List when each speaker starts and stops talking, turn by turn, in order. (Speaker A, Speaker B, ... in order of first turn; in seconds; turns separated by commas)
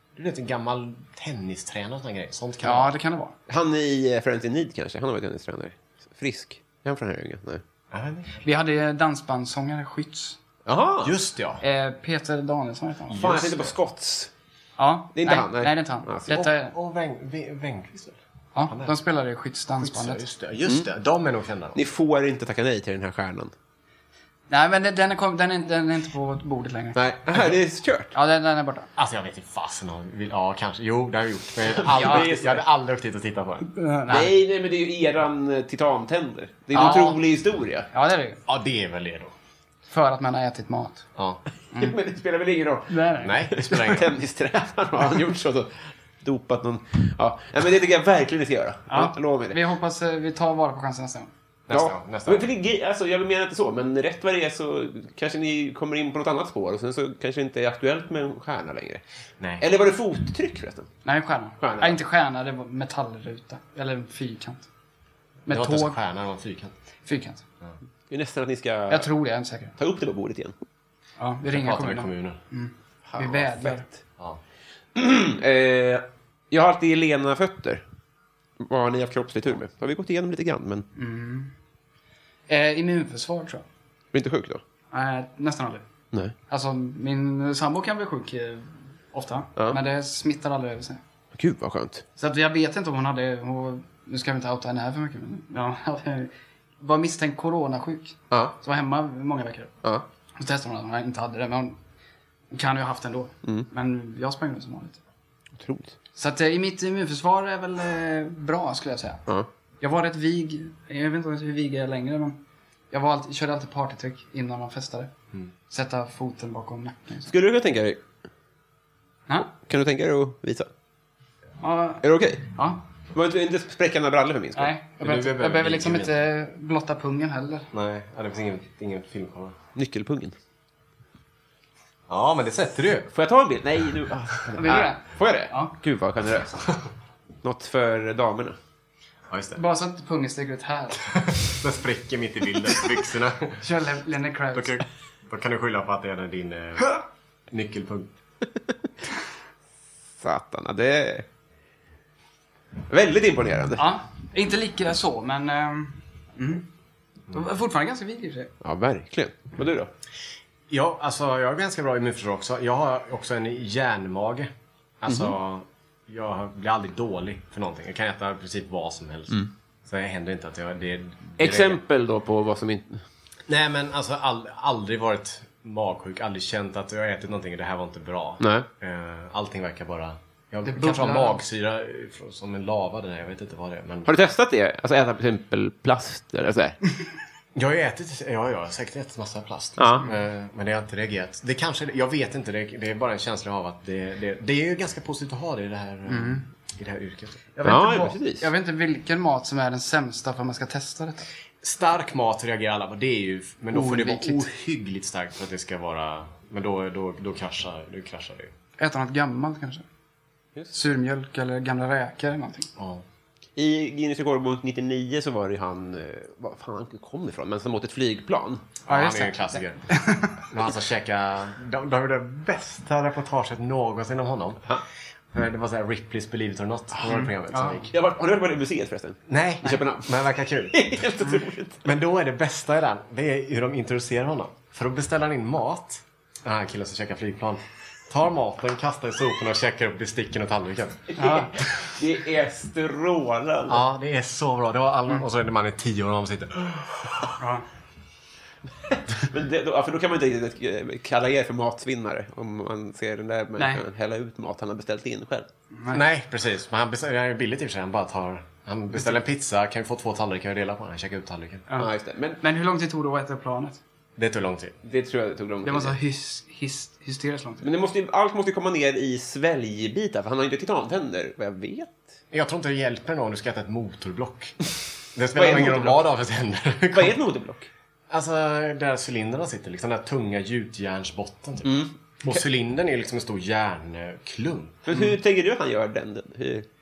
Speaker A: 0.2-2.9, Speaker B: 2.6-3.4, Speaker C: 3.5-7.6, Speaker A: 7.9-8.4, Speaker B: 8.4-10.4, Speaker C: 10.7-11.2, Speaker A: 11.0-11.6, Speaker B: 11.6-13.3, Speaker A: 13.1-13.7, Speaker C: 13.1-14.3, Speaker B: 14.8-16.7, Speaker C: 15.2-16.3, Speaker A: 16.3-18.2, Speaker B: 18.6-20.2, Speaker A: 18.7-18.9, Speaker A: 19.8-21.8, Speaker C: 21.8-23.5, Speaker B: 24.5-27.0, Speaker C: 26.9-28.1, Speaker B: 28.1-28.9, Speaker A: 29.0-33.7, Speaker C: 31.6-32.6, Speaker B: 31.9-32.3, Speaker B: 33.7-34.3, Speaker C: 34.1-37.9, Speaker B: 36.7-37.2, Speaker B: 37.9-38.4, Speaker A: 38.5-39.3, Speaker B: 39.9-41.1, Speaker A: 41.2-41.4, Speaker C: 41.8-49.6, Speaker B: 42.9-43.8, Speaker A: 43.2-44.1, Speaker B: 48.9-51.3, Speaker A: 51.7-52.5, Speaker C: 51.7-59.0, Speaker A: 59.4-59.6, Speaker C: 59.6-60.9, Speaker B: 61.0-64.7, Speaker C: 61.6-62.0, Speaker B: 65.5-66.0, Speaker A: 65.5-66.7, Speaker B: 67.0-67.4, Speaker C: 68.1-69.1, Speaker B: 68.9-69.8, Speaker C: 69.8-70.5, Speaker B: 71.2-73.9, Speaker A: 71.5-72.4, Speaker C: 73.1-74.0, Speaker C: 75.0-77.8, Speaker C: 78.6-80.9, Speaker B: 81.0-81.5, Speaker B: 82.5-83.7, Speaker C: 84.1-84.6, Speaker B: 84.9-85.8, Speaker B: 86.5-91.0, Speaker C: 91.3-92.0, Speaker B: 92.2-99.7, Speaker B: 100.4-101.8, Speaker B: 102.5-105.0, Speaker C: 105.6-106.0, Speaker B: 106.2-109.2, Speaker B: 109.8-112.4, Speaker B: 112.9-115.1, Speaker B: 115.7-117.3, Speaker C: 117.2-118.0, Speaker C: 119.4-120.7, Speaker B: 121.6-122.8, Speaker C: 122.0-122.5, Speaker C: 123.1-124.7, Speaker B: 124.6-127.7, Speaker A: 125.0-126.2, Speaker A: 127.7-129.6, Speaker C: 129.8-130.4, Speaker A: 132.1-133.1, Speaker C: 133.1-136.7, Speaker B: 134.6-135.7, Speaker C: 137.4-138.6, Speaker A: 139.3-139.6, Speaker B: 139.6-141.1, Speaker A: 141.3-143.6, Speaker B: 143.6-144.8, Speaker A: 144.5-148.1, Speaker C: 150.2-151.3, Speaker C: 152.9-153.8, Speaker B: 153.8-156.7, Speaker B: 157.3-158.5, Speaker C: 158.6-159.9, Speaker A: 160.7-164.5, Speaker A: 165.0-171.8, Speaker C: 165.1-165.3, Speaker C: 171.4-173.0, Speaker A: 173.5-184.1, Speaker C: 178.4-178.7, Speaker B: 180.7-181.4, Speaker C: 184.1-186.8, Speaker A: 187.6-197.5, Speaker C: 189.8-190.1, Speaker B: 196.1-196.4, Speaker B: 197.6-201.3, Speaker C: 197.6-198.5, Speaker A: 201.6-208.5, Speaker B: 203.7-204.5, Speaker B: 208.8-209.8, Speaker B: 210.7-212.7, Speaker A: 212.8-213.0, Speaker C: 213.6-218.6, Speaker A: 218.9-219.8, Speaker B: 218.9-220.4, Speaker A: 220.4-224.6, Speaker A: 225.3-227.9, Speaker B: 227.1-227.9, Speaker C: 227.9-231.9, Speaker A: 229.3-231.0, Speaker A: 231.8-241.2, Speaker C: 241.1-243.8, Speaker B: 241.2-241.5, Speaker A: 243.7-247.4, Speaker B: 247.4-247.7, Speaker C: 249.2-255.5, Speaker B: 253.6-253.8, Speaker B: 255.7-256.0, Speaker A: 255.9-261.7, Speaker B: 261.7-263.8, Speaker C: 261.8-262.4, Speaker A: 264.2-264.8, Speaker C: 264.8-266.0, Speaker B: 265.6-267.7, Speaker C: 267.6-272.0, Speaker A: 272.3-277.2, Speaker C: 275.3-276.1, Speaker C: 276.9-277.7, Speaker A: 278.1-284.9, Speaker C: 281.6-282.4, Speaker C: 284.9-286.7